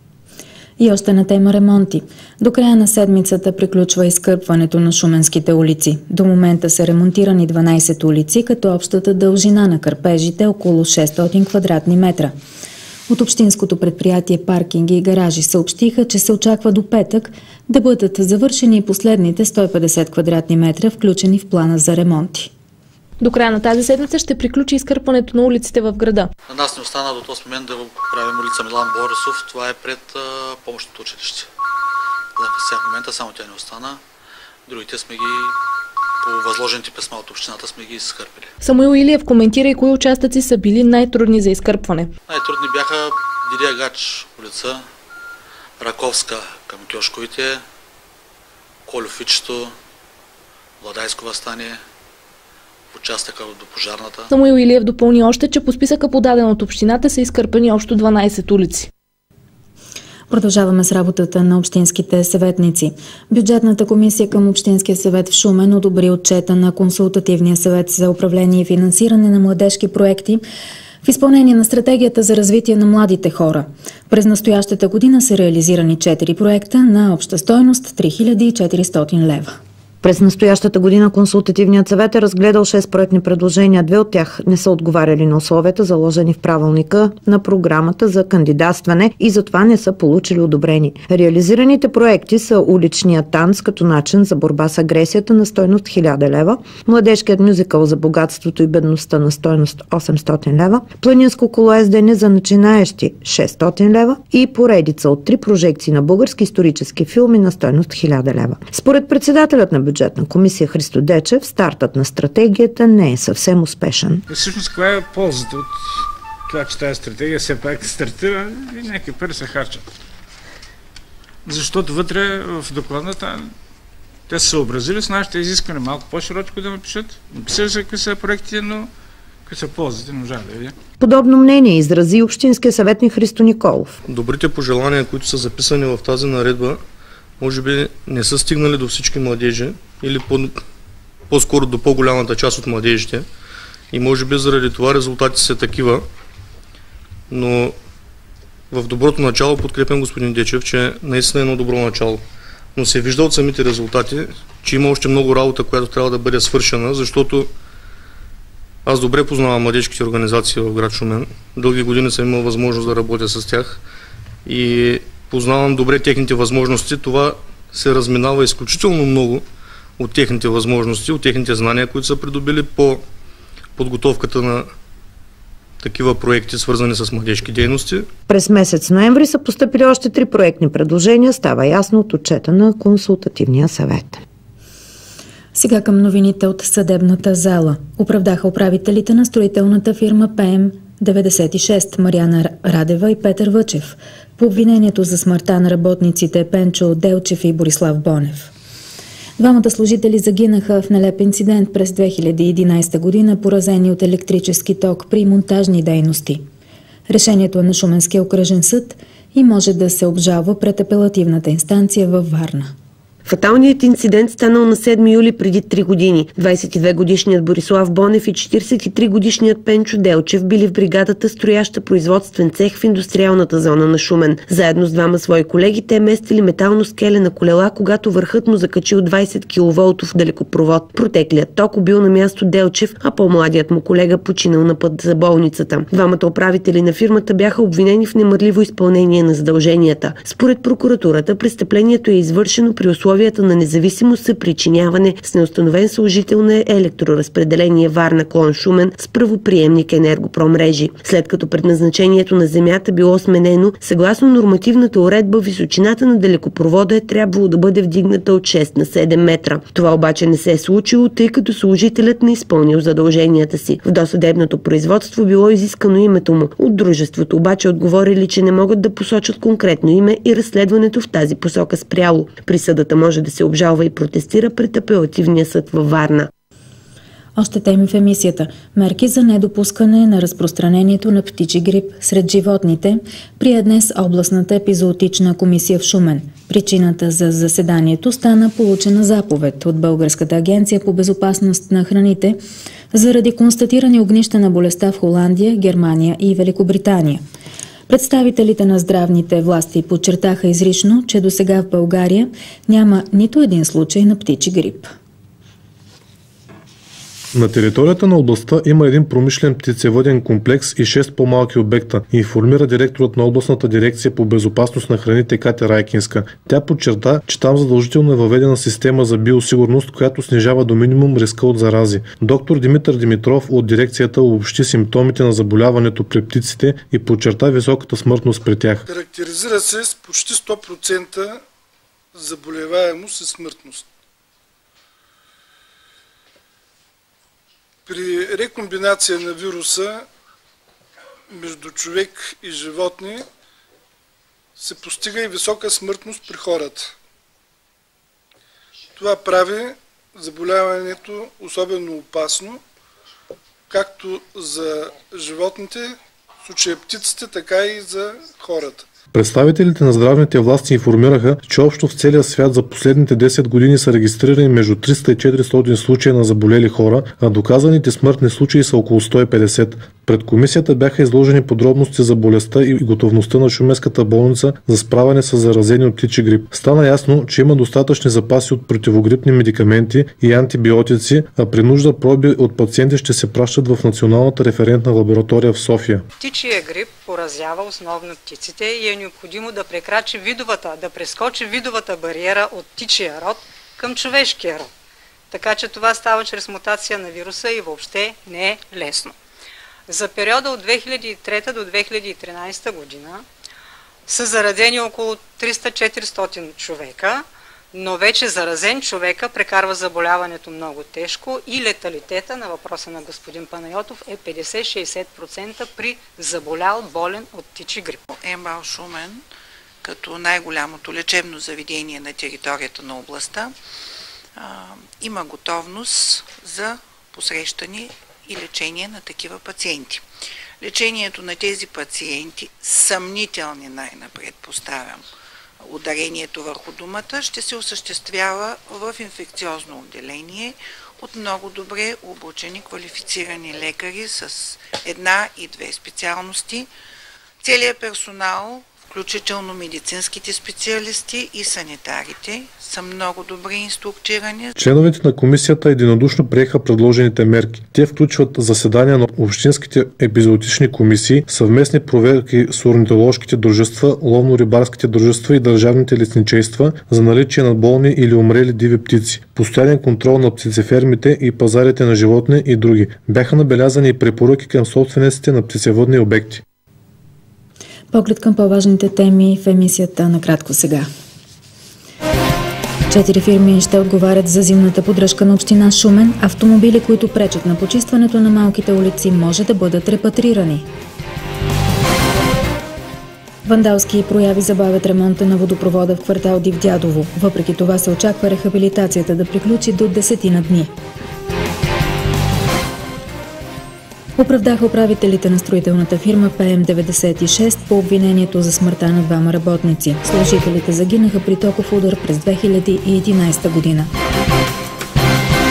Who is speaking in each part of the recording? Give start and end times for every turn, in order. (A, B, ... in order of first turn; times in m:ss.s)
0:00.8-0:12.3 A
0:13.1-0:22.5 A
0:23.2-0:26.3 B
0:26.5-0:31.5 C
0:32.4-0:34.0 C
0:34.7-0:35.6 C
0:36.2-0:38.5 C
0:38.6-0:42.1 B
0:42.3-0:44.9 C
0:45.8-0:47.6 C
0:48.9-0:49.8 C
0:50.8-0:51.8 C
0:52.9-0:54.3 C
0:54.3-0:58.9 B
1:00.3-1:10.4 A
1:11.0-1:19.6 A
1:20.0-1:54.2 D
1:54.3-1:59.9 E
2:01.4-2:03.5 E
2:04.3-2:08.9 E
2:09.5-2:10.8 E
2:11.0-2:14.0 D
2:14.0-2:16.8 F
2:17.4-2:20.6 F
2:21.3-2:23.3 F
2:23.9-2:26.1 F
2:27.3-2:27.8 F
2:28.7-2:37.5 F
2:38.8-2:43.8 F
2:44.4-2:49.5 F
2:50.0-2:53.0 F
2:53.8-2:54.7 F
2:55.8-2:58.1 F
2:58.3-3:04.2 D
3:05.5-3:18.5 A
3:19.4-3:26.4 A
3:27.1-3:32.7 A
3:33.2-4:36.3 G
4:37.4-4:52.4 A
4:52.9-4:57.2 A
4:57.9-5:04.9 A
5:07.3-5:28.8 H
5:28.9-5:31.4 I
5:32.2-5:33.8 I
5:37.9-5:40.0 I
5:41.4-5:43.2 I
5:44.6-5:46.9 I
5:49.0-5:52.6 I
5:53.7-5:55.9 I
5:56.4-5:58.8 I
5:59.1-6:26.0 H
6:26.2-6:34.7 J
6:35.3-6:39.1 J
6:39.9-6:43.2 J
6:44.1-6:58.0 J
6:58.0-6:59.2 K
6:59.8-7:03.6 K
7:04.4-7:10.0 K
7:10.6-7:15.0 K
7:15.6-7:26.7 K
7:27.4-7:34.5 K
7:34.6-7:56.4 H
7:57.9-8:00.9 A
8:02.9-8:10.7 A
8:13.4-8:20.7 A
8:24.2-8:33.9 A